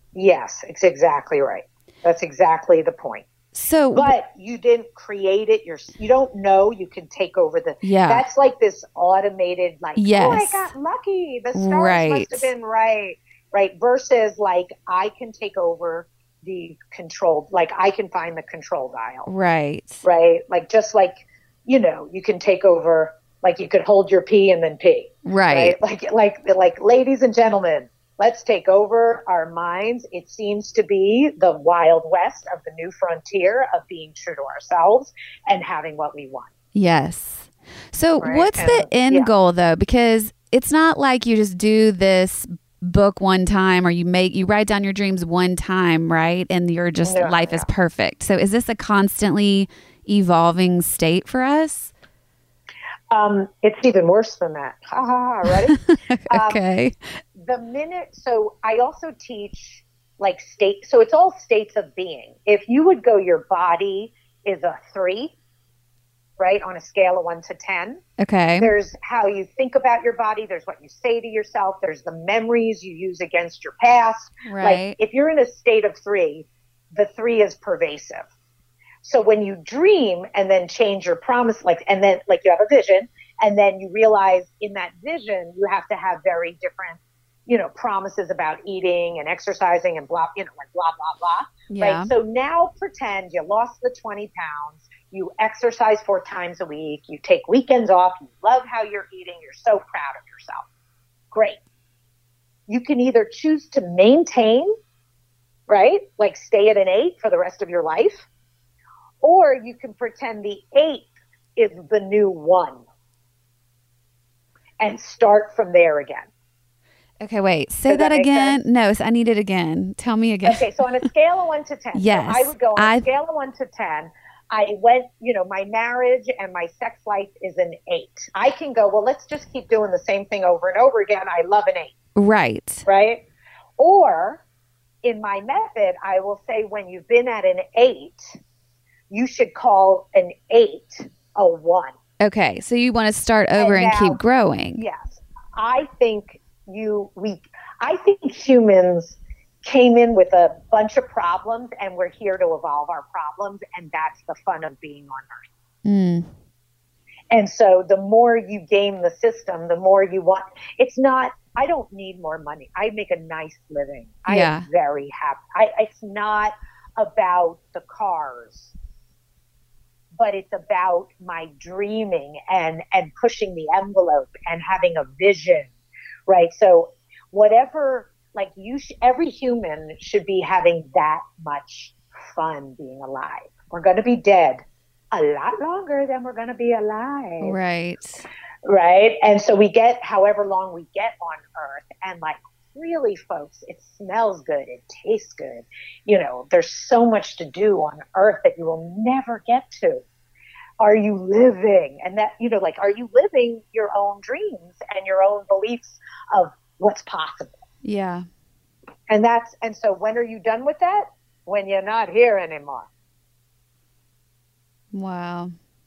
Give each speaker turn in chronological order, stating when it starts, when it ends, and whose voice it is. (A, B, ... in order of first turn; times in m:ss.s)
0:00.1-0:03.3 A
0:03.5-0:04.1 B
0:03.9-0:19.3 A
0:07.8-0:08.2 B
0:10.0-0:10.7 B
0:11.5-0:12.5 B
0:19.3-0:20.0 B
0:20.0-0:36.5 A
0:25.2-0:25.8 B
0:36.7-0:51.9 B
0:38.2-0:39.3 A
0:47.0-0:47.7 A
0:53.1-0:55.8 A
0:55.8-0:57.0 B
0:56.3-0:56.6 A
0:57.4-1:05.4 A
1:06.4-1:08.0 A
1:08.2-1:08.7 B
1:08.6-1:18.3 A
1:14.4-1:15.0 B
1:19.0-1:40.7 A
1:31.7-1:32.1 B
1:41.3-1:41.6 A
1:42.7-1:44.7 A
1:45.7-1:48.3 A
1:49.2-1:52.8 A
1:54.8-1:56.3 A
1:57.2-2:00.6 B
1:57.9-1:58.6 A
2:00.4-2:12.0 A
2:01.9-2:03.0 B
2:12.1-2:12.9 B
2:12.9-2:13.2 A
2:13.8-2:14.4 A
2:15.0-2:18.4 A
2:19.1-2:21.9 A
2:22.2-2:24.8 B
2:23.6-2:24.2 A
2:24.7-2:35.5 A
2:35.8-2:36.3 B
2:37.3-2:48.7 A
2:44.3-2:44.7 B
2:50.1-2:55.7 A
2:56.3-3:07.6 A
3:07.4-3:08.3 B
3:08.6-3:20.0 A
3:20.8-3:27.6 A
3:27.8-3:28.3 B
3:29.1-3:32.9 A
3:34.9-3:35.5 B